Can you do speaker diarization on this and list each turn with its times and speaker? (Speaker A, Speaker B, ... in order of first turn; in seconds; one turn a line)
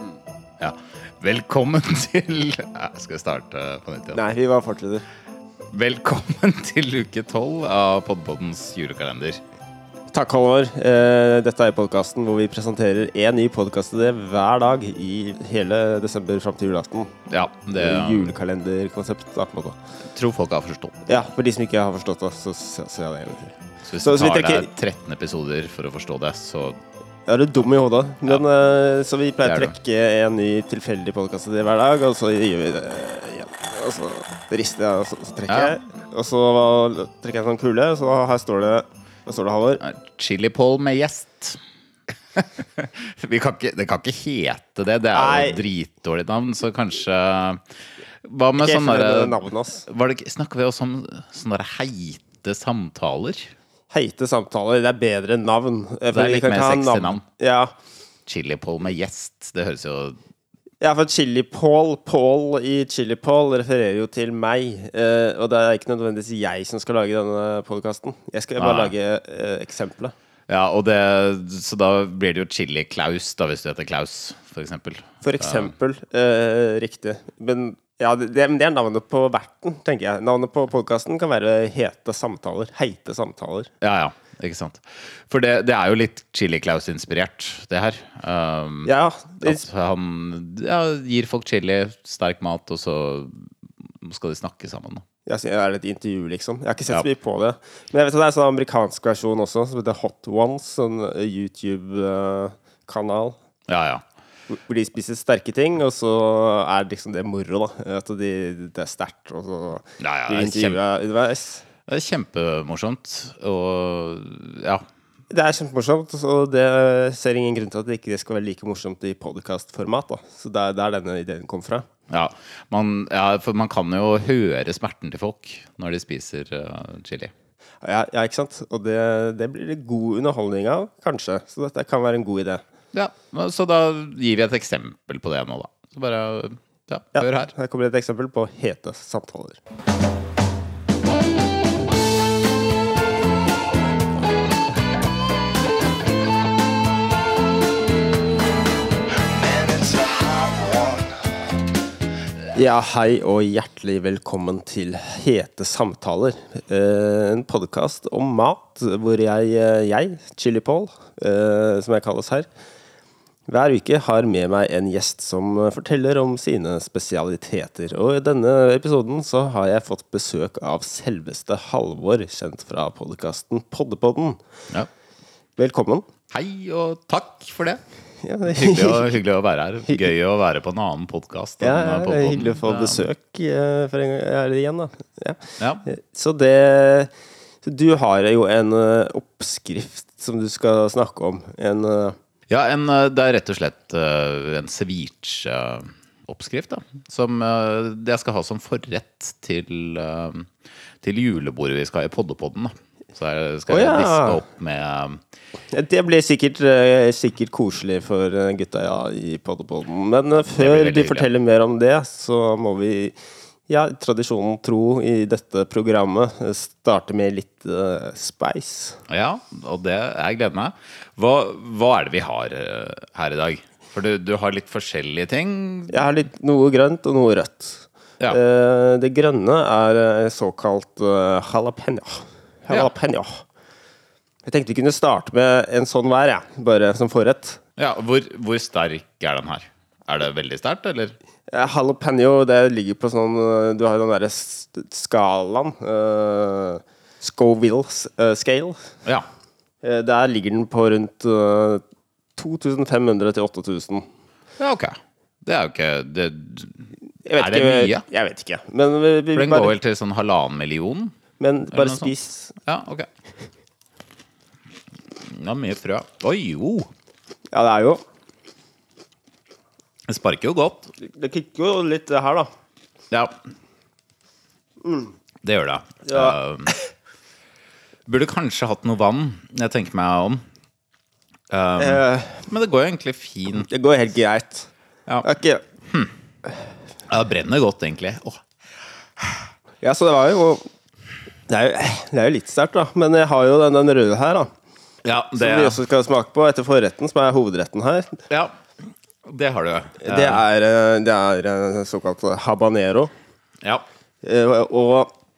Speaker A: 0.6-4.2
Speaker B: 4.1-5.0
Speaker A: 5.7-9.4
Speaker B: 10.1-17.1
Speaker A: 17.3-18.3
Speaker B: 17.8-19.8
Speaker A: 20.1-21.0
Speaker B: 21.1-24.7
Speaker A: 23.9-26.8
Speaker B: 27.3-39.8
Speaker A: 29.4-29.8
Speaker A: 35.5-35.7
Speaker A: 39.8-41.6
Speaker A: 42.3-47.6
Speaker B: 45.1-45.6
Speaker A: 48.2-53.5
Speaker B: 48.6-49.8
Speaker B: 53.9-57.7
Speaker A: 56.1-57.2
Speaker A: 58.3-60.1
Speaker B: 60.8-70.1
Speaker A: 68.6-68.9
Speaker A: 70.5-75.7
Speaker B: 75.2-83.7
Speaker A: 83.8-93.5
Speaker B: 88.8-89.7
Speaker A: 94.0-95.0
Speaker B: 95.2-103.3
Speaker A: 103.7-104.0
Speaker B: 104.5-111.6
Speaker A: 110.0-110.8
Speaker A: 111.9-114.8
Speaker B: 115.3-121.8
Speaker A: 122.1-127.3
Speaker B: 127.8-132.6
Speaker A: 132.9-137.5
Speaker B: 137.1-139.6
Speaker B: 152.5-162.5
Speaker B: 163.5-174.4
Speaker B: 175.6-176.0
Speaker A: 176.3-177.8
Speaker B: 178.2-179.1
Speaker A: 178.5-183.1
Speaker B: 181.6-187.1
Speaker A: 185.6-185.8
Speaker B: 187.6-192.2
Speaker A: 192.5-200.5
Speaker A: 201.0-205.2
Speaker B: 203.7-204.4
Speaker B: 205.7-213.2
Speaker A: 210.5-211.3
Speaker B: 213.7-219.0
Speaker A: 219.1-226.1
Speaker B: 225.9-233.4
Speaker B: 234.4-237.6
Speaker A: 237.8-241.2
Speaker B: 241.5-248.8
Speaker B: 249.8-251.8
Speaker B: 252.4-254.0
Speaker A: 254.6-258.1
Speaker B: 257.2-259.8
Speaker A: 259.3-261.1
Speaker B: 261.4-262.5
Speaker A: 261.7-262.1
Speaker A: 262.6-263.1
Speaker A: 265.2-266.9
Speaker B: 267.5-268.0
Speaker A: 270.1-270.9
Speaker B: 271.0-272.5
Speaker B: 274.8-275.1
Speaker A: 275.4-276.7
Speaker B: 276.0-276.8
Speaker A: 278.1-280.4
Speaker A: 281.5-283.7
Speaker B: 281.8-282.4
Speaker B: 283.6-284.7
Speaker B: 285.2-285.6
Speaker A: 287.1-288.4
Speaker B: 289.8-290.6
Speaker B: 291.5-294.5
Speaker A: 295.0-295.8
Speaker B: 295.3-298.2
Speaker A: 299.2-300.4
Speaker B: 300.0-303.1
Speaker B: 304.2-305.1